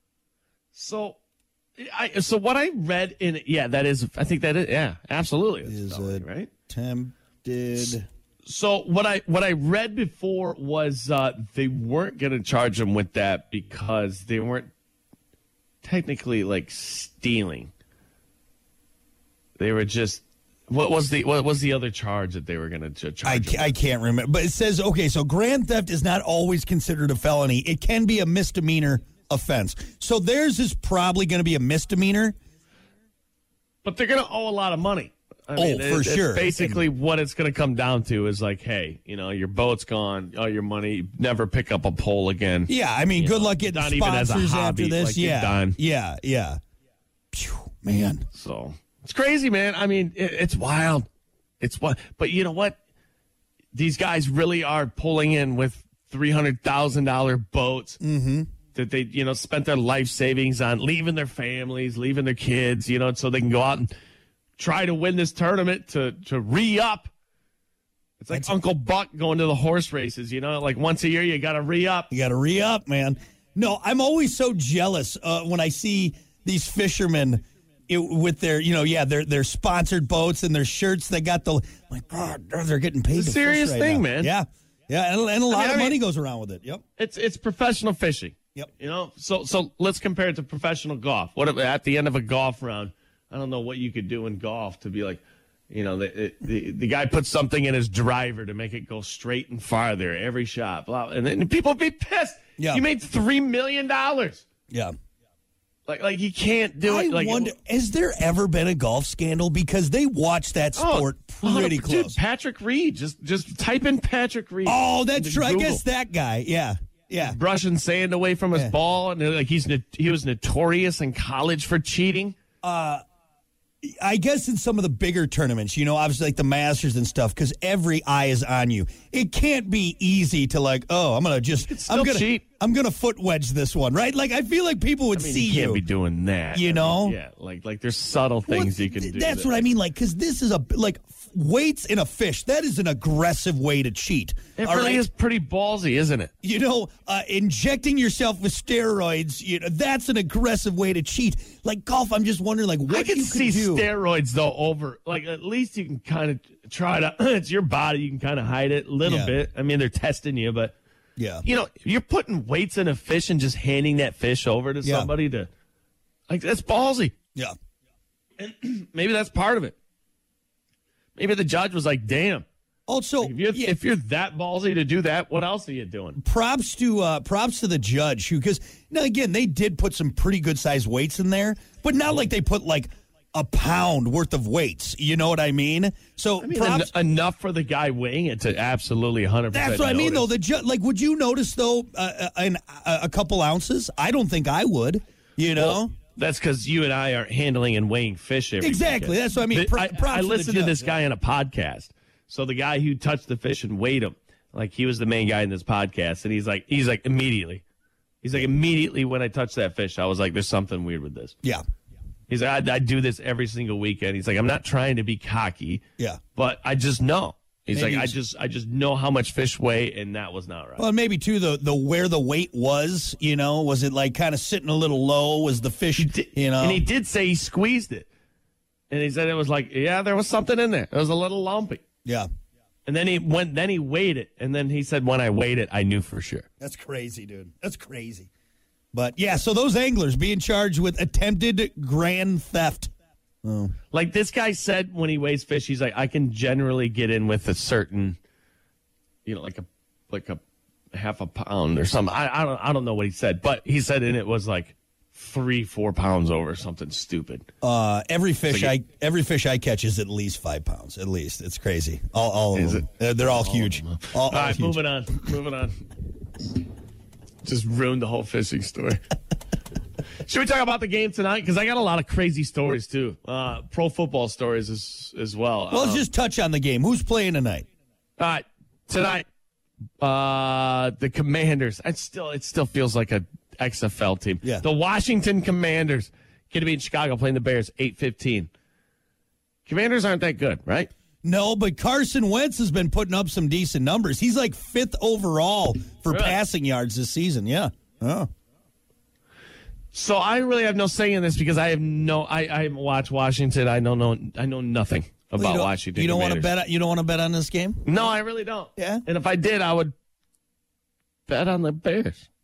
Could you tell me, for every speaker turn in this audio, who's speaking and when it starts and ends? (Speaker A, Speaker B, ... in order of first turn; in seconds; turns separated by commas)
Speaker A: 0.7-1.2, Speaker A: 1.8-6.5, Speaker B: 5.6-8.1, Speaker A: 8.4-14.7, Speaker A: 15.8-17.7, Speaker A: 19.6-23.8, Speaker B: 23.2-32.3, Speaker A: 33.8-45.8, Speaker B: 35.5-36.9, Speaker B: 42.7-46.6, Speaker B: 47.3-48.2, Speaker A: 48.3-51.1, Speaker A: 51.6-52.8, Speaker A: 53.7-58.0, Speaker B: 58.0-58.5, Speaker A: 58.7-63.9, Speaker A: 64.6-67.1, Speaker A: 68.2-72.1, Speaker B: 68.3-68.5, Speaker B: 72.1-86.8, Speaker A: 83.1-84.3, Speaker A: 85.5-86.0, Speaker A: 87.0-104.4, Speaker B: 102.6-102.8, Speaker A: 105.9-107.5, Speaker B: 106.8-112.2, Speaker A: 110.7-115.8, Speaker B: 114.6-117.4, Speaker A: 117.2-122.4, Speaker B: 122.6-123.0, Speaker B: 123.8-135.8, Speaker A: 131.6-132.4, Speaker A: 135.1-139.7, Speaker B: 136.5-137.2, Speaker B: 138.5-145.0, Speaker A: 144.6-146.3, Speaker B: 146.4-153.9, Speaker A: 152.9-160.7, Speaker B: 159.0-159.4, Speaker B: 161.2-161.4, Speaker A: 161.4-165.5, Speaker B: 164.8-165.1, Speaker A: 166.3-167.1, Speaker A: 168.4-169.7, Speaker A: 171.2-172.4, Speaker B: 172.9-173.8, Speaker A: 173.2-176.2, Speaker B: 176.2-186.9, Speaker A: 186.4-190.3, Speaker B: 189.5-195.9, Speaker A: 195.6-207.6, Speaker B: 198.6-201.0, Speaker A: 208.2-211.3, Speaker A: 212.3-215.8, Speaker A: 216.3-220.8, Speaker B: 217.7-218.1, Speaker B: 220.8-226.8, Speaker A: 226.0-228.1, Speaker A: 228.9-231.8, Speaker A: 232.8-236.5, Speaker B: 236.6-238.3, Speaker B: 238.9-242.9, Speaker B: 243.4-243.7, Speaker A: 243.9-248.2, Speaker A: 249.2-257.4, Speaker B: 257.6-264.8, Speaker A: 258.4-258.8, Speaker A: 262.5-265.8, Speaker A: 267.4-269.0, Speaker A: 270.2-276.1, Speaker B: 275.7-277.6, Speaker A: 278.2-279.2, Speaker A: 280.0-288.5, Speaker A: 289.6-290.9, Speaker B: 291.2-298.3, Speaker A: 296.1-296.4, Speaker A: 299.9-306.5, Speaker B: 305.3-308.0, Speaker A: 307.8-309.9, Speaker B: 308.8-309.0, Speaker A: 311.3-312.3